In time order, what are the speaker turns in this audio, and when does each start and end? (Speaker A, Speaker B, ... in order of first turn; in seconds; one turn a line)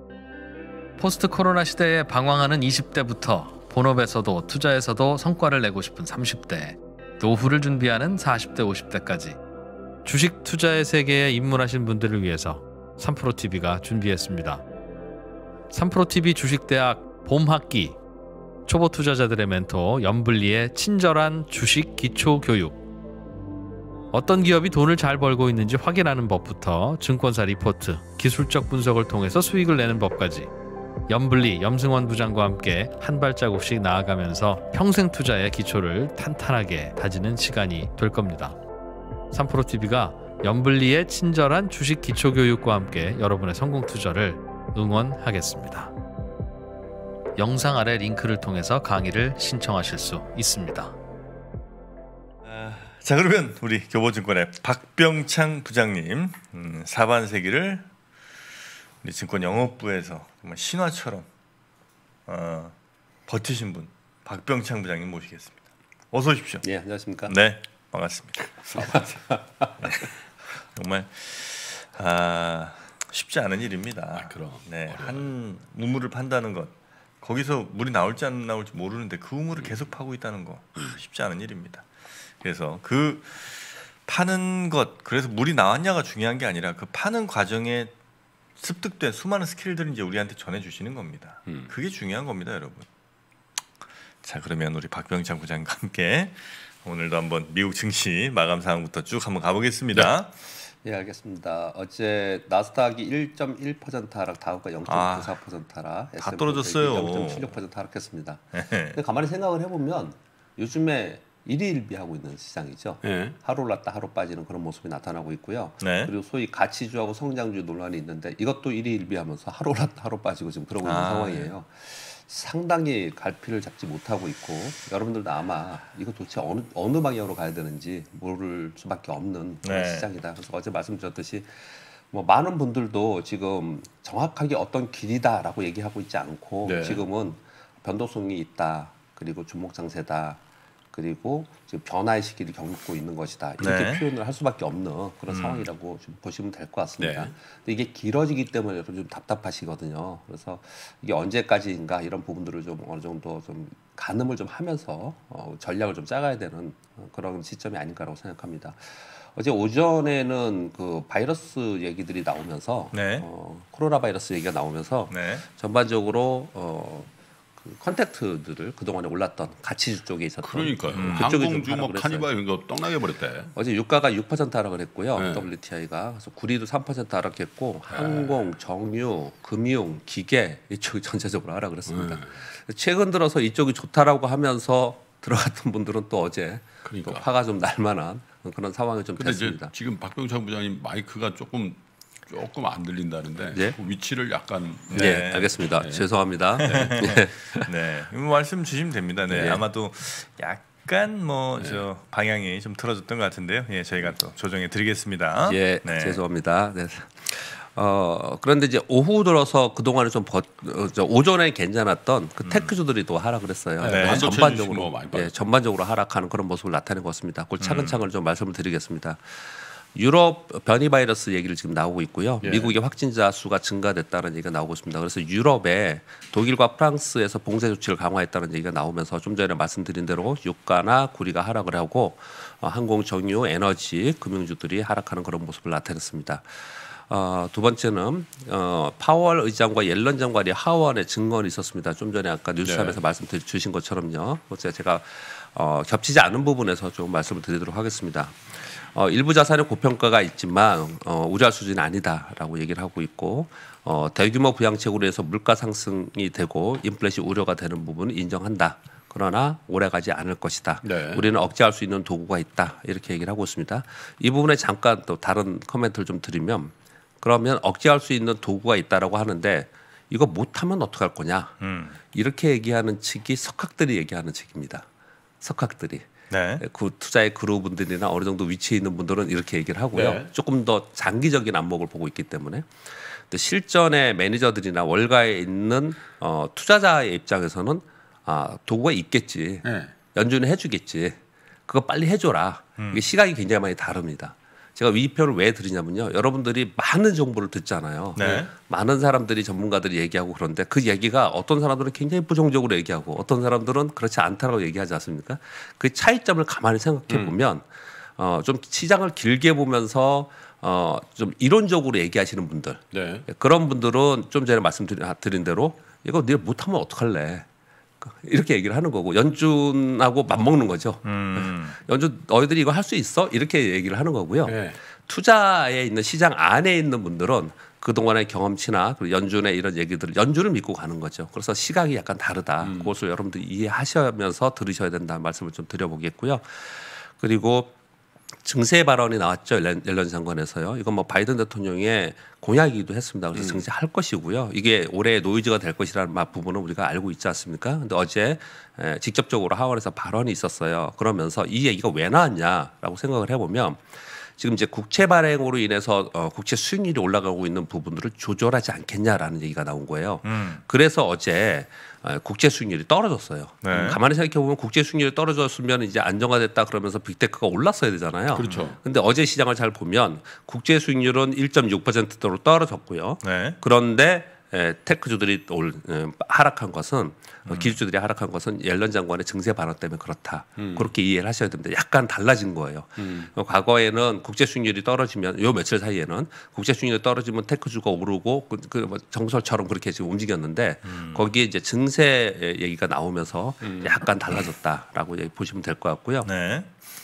Speaker A: 1.0-9.4
Speaker A: 10.1-14.6
Speaker A: 15.7-18.0
Speaker A: 18.7-22.8
Speaker A: 24.1-30.5
Speaker A: 31.1-38.6
Speaker A: 39.3-45.9
Speaker A: 47.4-51.0
Speaker B: 52.5-57.9
Speaker B: 59.0-61.3
Speaker B: 62.3-62.7
Speaker B: 63.3-65.6
Speaker B: 66.1-66.6
Speaker C: 66.6-67.3
Speaker B: 67.3-69.0
Speaker C: 68.8-69.9
Speaker B: 69.8-70.1
Speaker B: 70.8-81.9
Speaker D: 74.1-75.3
Speaker B: 82.4-87.9
Speaker B: 88.6-92.9
Speaker B: 94.2-100.3
Speaker C: 100.8-140.4
Speaker B: 104.9-105.3
Speaker B: 106.2-107.5
Speaker B: 108.5-109.0
Speaker D: 113.0-113.4
Speaker B: 115.8-116.1
Speaker B: 120.8-121.5
Speaker B: 129.6-130.1
Speaker D: 136.6-137.0
Speaker C: 140.9-167.1
Speaker B: 143.6-144.0
Speaker B: 145.3-145.7
Speaker D: 147.0-147.3
Speaker B: 162.9-163.3
Speaker B: 165.1-165.4
Speaker C: 167.6-172.3
Speaker D: 170.4-173.5
Speaker B: 170.9-171.3
Speaker C: 173.6-189.7
Speaker D: 175.2-175.5
Speaker D: 177.9-178.3
Speaker D: 181.9-182.3
Speaker D: 186.8-187.2
Speaker D: 189.2-196.1
Speaker B: 194.9-195.6
Speaker C: 194.9-197.7
Speaker D: 196.6-196.9
Speaker B: 196.6-206.2
Speaker C: 199.3-199.6
Speaker D: 201.6-201.8
Speaker C: 205.5-219.4
Speaker D: 213.8-215.3
Speaker B: 213.9-214.2
Speaker B: 217.6-218.0
Speaker C: 219.9-271.5
Speaker D: 222.4-222.8
Speaker D: 242.6-243.0
Speaker D: 260.8-261.3
Speaker B: 271.6-272.0
Speaker C: 272.1-274.9
Speaker C: 275.4-276.1
Speaker B: 276.3-276.6
Speaker C: 276.6-282.7
Speaker D: 279.9-280.3
Speaker C: 283.3-307.6
Speaker D: 289.6-289.9
Speaker B: 292.8-293.0
Speaker B: 298.2-298.5
Speaker D: 298.2-298.5
Speaker D: 307.1-307.3
Speaker C: 308.2-317.4
Speaker D: 312.9-313.3
Speaker C: 318.0-324.6
Speaker B: 321.0-321.8
Speaker D: 324.4-324.8
Speaker C: 325.1-337.7
Speaker D: 332.6-332.9
Speaker C: 338.4-353.8
Speaker D: 343.3-343.6
Speaker C: 354.4-396.3
Speaker B: 360.2-360.6
Speaker B: 363.6-364.0
Speaker D: 363.7-364.0
Speaker D: 368.3-368.8
Speaker B: 368.4-368.7
Speaker B: 373.2-373.6
Speaker B: 377.5-377.7
Speaker D: 380.6-380.9
Speaker D: 383.0-383.3
Speaker B: 390.9-391.2
Speaker D: 393.6-393.9
Speaker B: 396.2-396.7